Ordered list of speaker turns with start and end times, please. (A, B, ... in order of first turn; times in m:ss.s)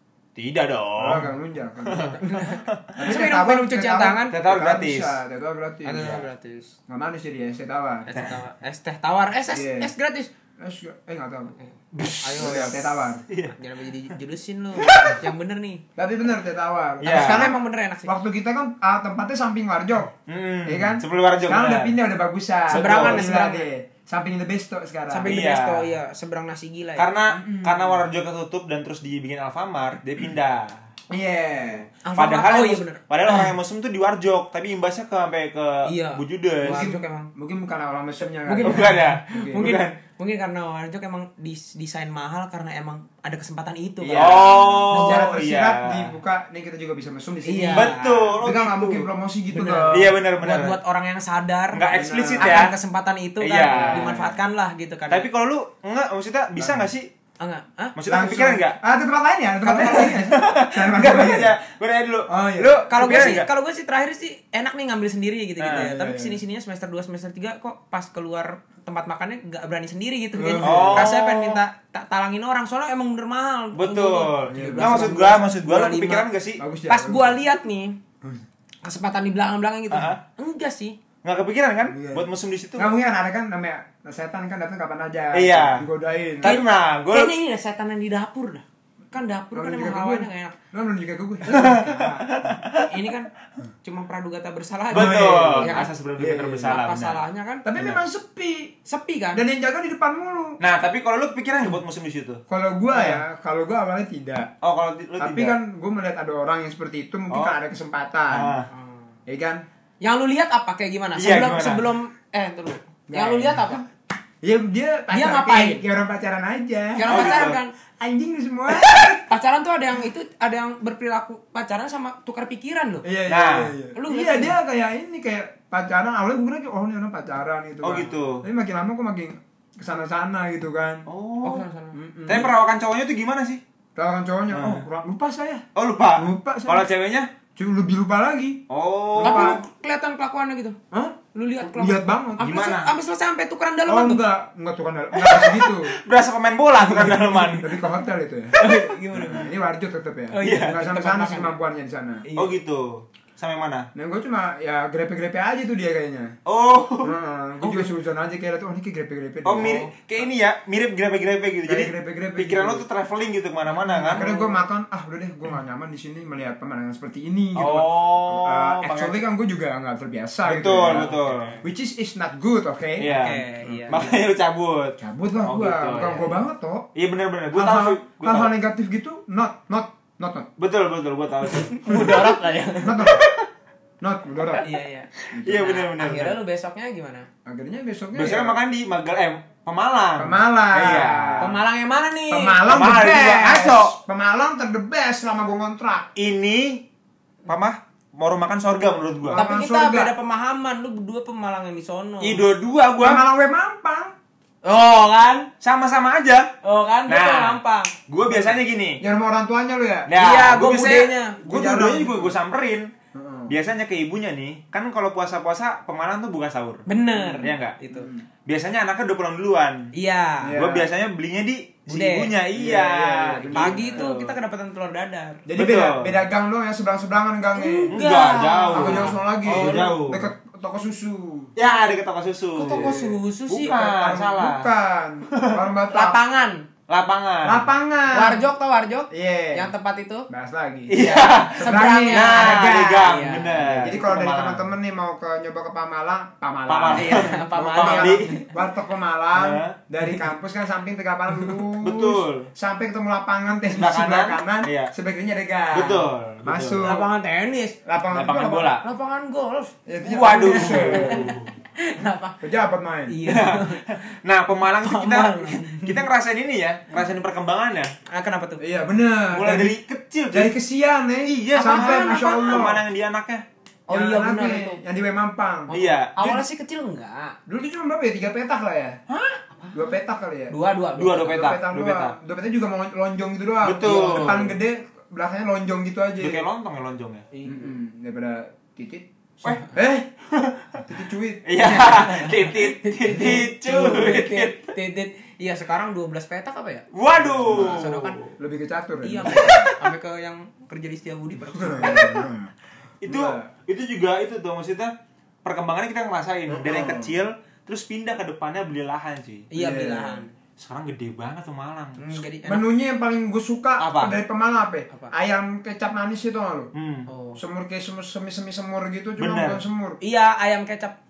0:00.4-0:01.3 A
0:01.0-0:02.2 B
0:01.8-0:03.0 A
0:02.2-0:04.4 C
0:02.9-0:06.2 B
0:04.3-0:05.2 A
0:05.8-0:06.7 C
0:06.9-0:08.1 B
0:08.0-0:10.3 C
0:09.5-0:09.9 B
0:10.6-0:11.5 B
0:11.6-0:13.0 C
0:11.9-0:12.6 A
0:12.4-0:13.2 B
0:13.3-0:13.6 A
0:13.6-0:15.8 C
0:14.8-0:15.2 A
0:16.0-0:20.1 B
0:17.0-0:17.5 A
0:17.0-0:18.1 C
0:20.3-0:21.9 A
0:20.6-0:25.4 B
0:22.7-0:23.3 A
0:22.7-0:23.7 C
0:25.1-0:27.1 C
0:25.2-0:25.9 A
0:27.0-0:30.8 A
0:27.3-0:28.0 B
0:31.1-0:31.9 B
0:32.0-0:33.4 C
0:32.1-0:36.9 A
0:35.8-0:37.3 C
0:36.6-0:39.7 B
0:38.4-0:45.3 C
0:38.6-0:39.9 A
0:44.0-0:50.2 B
0:44.1-0:46.1 A
0:47.4-0:48.3 C
0:47.7-0:49.1 A
0:49.5-0:55.2 C
0:49.9-0:50.8 A
0:51.7-0:52.7 A
0:51.9-0:52.7 B
0:53.4-0:54.1 A
0:53.6-0:54.3 B
0:55.1-0:57.1 A
0:56.6-0:56.9 B
0:57.4-0:57.9 C
0:58.0-0:58.8 A
0:58.0-1:01.5 B
0:59.7-1:03.5 A
0:59.7-1:00.1 C
1:02.3-1:02.8 B
1:02.9-1:16.3 C
1:05.6-1:05.9 A
1:05.7-1:06.4 B
1:10.3-1:11.1 B
1:10.6-1:11.6 A
1:13.8-1:16.6 A
1:14.5-1:15.4 B
1:16.6-1:17.4 B
1:16.9-1:18.0 C
1:18.8-1:21.0 C
1:19.9-1:20.2 A
1:21.2-1:22.9 A
1:21.8-1:26.6 B
1:25.3-1:25.8 A
1:26.4-1:27.3 A
1:26.4-1:30.5 C
1:29.5-1:31.7 B
1:31.4-1:32.3 C
1:31.5-1:32.9 A
1:32.8-1:33.3 C
1:33.8-1:35.9 C
1:34.9-1:36.8 B
1:34.9-1:37.2 A
1:36.6-1:37.7 C
1:37.6-1:38.7 B
1:37.8-1:38.0 A
1:38.9-1:39.4 C
1:39.3-1:40.6 B
1:40.6-1:42.4 A
1:42.5-1:44.5 B
1:42.9-1:43.2 A
1:44.6-1:45.6 A
1:45.2-1:48.5 B
1:47.3-1:47.6 A
1:48.3-1:48.7 A
1:48.7-1:49.0 C
1:49.3-1:49.6 B
1:50.0-1:53.8 C
1:51.2-1:51.9 A
1:53.1-1:53.8 B
1:54.4-1:59.3 B
1:55.1-1:55.8 C
1:56.9-1:57.7 C
1:57.0-1:57.6 A
1:59.3-2:03.0 C
2:03.0-2:11.1 B
2:03.3-2:03.7 A
2:03.9-2:04.6 C
2:07.8-2:08.4 A
2:11.1-2:11.6 A
2:11.4-2:12.5 C
2:11.9-2:12.5 B
2:12.3-2:13.6 A
2:14.0-2:15.6 B
2:14.5-2:14.8 A
2:15.7-2:17.3 A
2:16.2-2:16.8 B
2:17.6-2:19.6 B
2:18.7-2:19.6 A
2:19.2-2:20.8 C
2:20.9-2:22.4 B
2:21.3-2:24.2 C
2:22.4-2:22.9 A
2:23.9-2:26.0 B
2:25.2-2:27.7 A
2:26.8-2:28.6 B
2:28.6-2:29.5 C
2:29.2-2:32.2 B
2:30.3-2:31.6 C
2:30.4-2:30.8 A
2:32.2-2:32.5 C
2:32.4-2:33.9 A
2:33.9-2:36.3 B
2:36.4-2:37.1 A
2:37.0-2:39.8 B
2:39.4-2:44.3 A
2:39.6-2:39.9 C
2:41.6-2:42.8 B
2:43.8-2:44.6 C
2:44.0-2:53.1 B
2:47.6-2:49.2 A
2:50.4-2:51.6 A
2:50.8-2:51.6 C
2:53.0-2:56.4 A
2:53.1-2:54.0 C
2:53.6-2:54.2 B
2:55.0-2:56.9 B
2:56.9-2:58.5 A
2:57.5-3:00.5 B
3:00.6-3:02.3 A
3:01.7-3:03.1 C
3:01.9-3:02.2 B
3:02.8-3:03.2 B
3:03.0-3:03.4 A
3:04.0-3:04.7 B
3:04.6-3:07.3 C
3:05.3-3:05.8 B
3:05.3-3:06.4 A
3:07.4-3:08.6 B
3:08.1-3:11.5 A
3:10.2-3:11.6 B
3:11.4-3:12.6 C
3:12.3-3:16.1 B
3:12.7-3:13.9 A
3:16.2-3:16.8 A
3:17.4-3:19.4 A
3:19.2-3:20.1 B
3:19.3-3:22.4 C
3:22.2-3:23.2 A
3:23.0-3:24.1 B
3:24.6-3:25.5 C
3:25.6-3:26.5 A
3:26.6-3:27.9 C
3:27.1-3:29.0 A
3:28.3-3:30.1 B
3:30.1-3:32.9 A
3:30.2-3:31.4 C
3:31.4-3:32.3 B
3:33.1-3:33.6 B
3:33.5-3:36.8 A
3:36.9-3:38.1 C
3:37.1-3:38.2 B
3:37.4-3:37.8 A
3:38.4-3:39.9 A
3:39.9-3:40.6 C
3:40.4-3:40.9 B
3:40.5-3:44.4 A
3:41.9-3:42.3 C
3:42.5-3:44.0 B
3:43.5-3:45.4 C
3:45.5-3:48.0 B
3:45.6-3:46.2 A
3:47.5-3:50.0 C
3:47.9-3:50.3 A
3:48.7-3:51.5 B
3:51.6-3:54.7 A
3:52.5-3:53.9 C
3:52.6-3:53.2 B
3:53.7-3:56.2 B
3:55.3-3:55.6 A
3:55.9-3:56.6 C
3:56.9-3:57.7 A
3:57.4-3:58.4 B
3:58.1-4:00.3 C
3:59.1-3:59.7 B
4:00.3-4:03.1 B
4:00.9-4:04.7 A
4:01.0-4:03.9 C
4:03.7-4:17.1 B
4:06.7-4:08.3 A
4:06.9-4:08.5 C
4:09.3-4:09.7 A
4:11.8-4:12.5 A
4:13.7-4:14.9 A
4:15.7-4:16.9 A
4:16.8-4:17.8 C
4:17.8-4:18.7 B
4:18.1-4:18.8 A
4:18.8-4:19.8 C
4:19.8-4:21.4 B
4:20.0-4:21.5 A
4:20.3-4:22.4 C
4:22.4-4:23.2 B
4:23.1-4:24.0 C
4:23.2-4:27.9 A
4:24.7-4:26.0 C
4:28.1-4:28.6 C
4:28.6-4:29.7 B
4:29.3-4:30.5 A
4:30.3-4:32.8 B
4:31.2-4:33.4 A
4:31.5-4:32.7 C
4:33.9-4:34.8 C
4:33.9-4:35.7 B
4:35.7-4:37.4 C
4:35.7-4:36.4 A
4:37.5-4:39.0 B
4:39.1-4:39.4 C
4:39.7-4:40.5 B
4:40.5-4:41.4 C
4:41.0-4:42.1 A
4:41.2-4:46.4 B
4:43.6-4:44.6 A
4:43.8-4:44.4 C
4:46.2-4:47.2 A
4:47.3-4:47.7 C
4:47.4-4:49.1 B
4:49.4-4:49.7 C
4:49.6-4:50.1 B
4:50.3-4:50.8 A
4:50.8-4:51.5 B
4:51.4-4:54.7 A
4:51.6-4:56.8 C
4:56.9-4:58.4 A
4:57.2-4:59.7 B
4:57.4-4:58.2 C
4:59.0-5:02.3 C
4:59.3-4:59.8 A
5:01.4-5:02.5 B
5:03.0-5:04.9 A
5:03.0-5:03.5 B
5:05.4-5:09.5 A
5:06.5-5:07.2 B
5:09.5-5:10.3 C
5:09.6-5:10.3 B
5:10.6-5:12.0 A
5:12.0-5:12.6 C
5:12.1-5:16.7 B
5:13.8-5:14.2 A
5:16.7-5:17.1 A
5:17.1-5:17.4 C
5:17.4-5:20.0 B
5:19.2-5:19.6 A
5:20.0-5:20.9 C